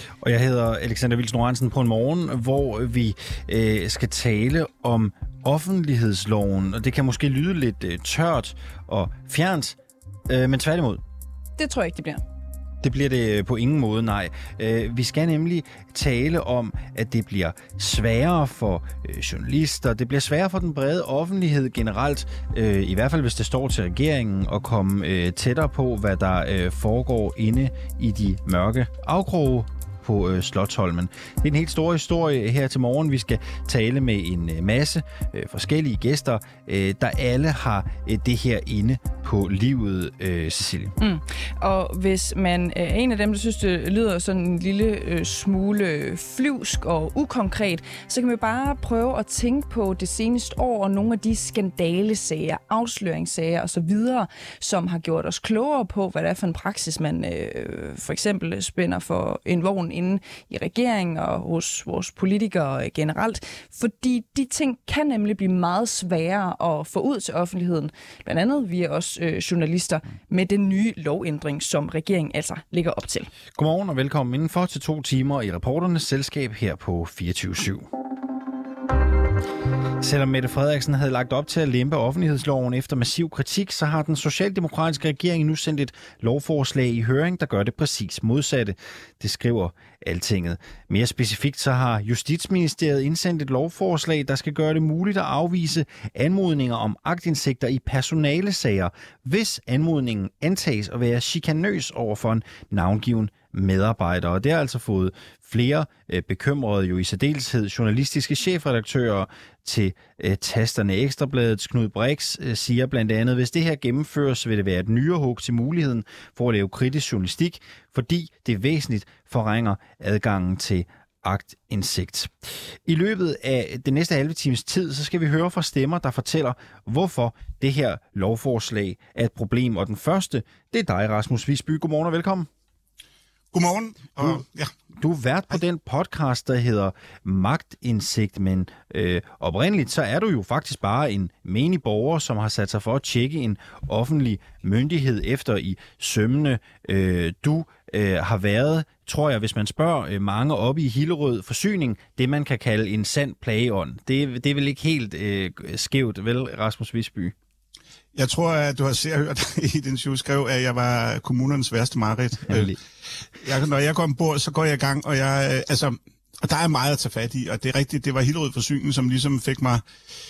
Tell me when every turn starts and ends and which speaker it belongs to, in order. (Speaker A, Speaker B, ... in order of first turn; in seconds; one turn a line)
Speaker A: 0.2-9.8
Speaker A: 10.3-11.0
Speaker B: 11.6-12.2
Speaker A: 12.8-41.0
Speaker B: 41.0-73.3
Speaker A: 73.5-77.9
Speaker A: 80.0-132.5
Speaker C: 133.5-134.7
Speaker A: 135.0-157.3
Speaker C: 158.2-162.8
Speaker A: 162.5-162.8
Speaker C: 163.4-169.8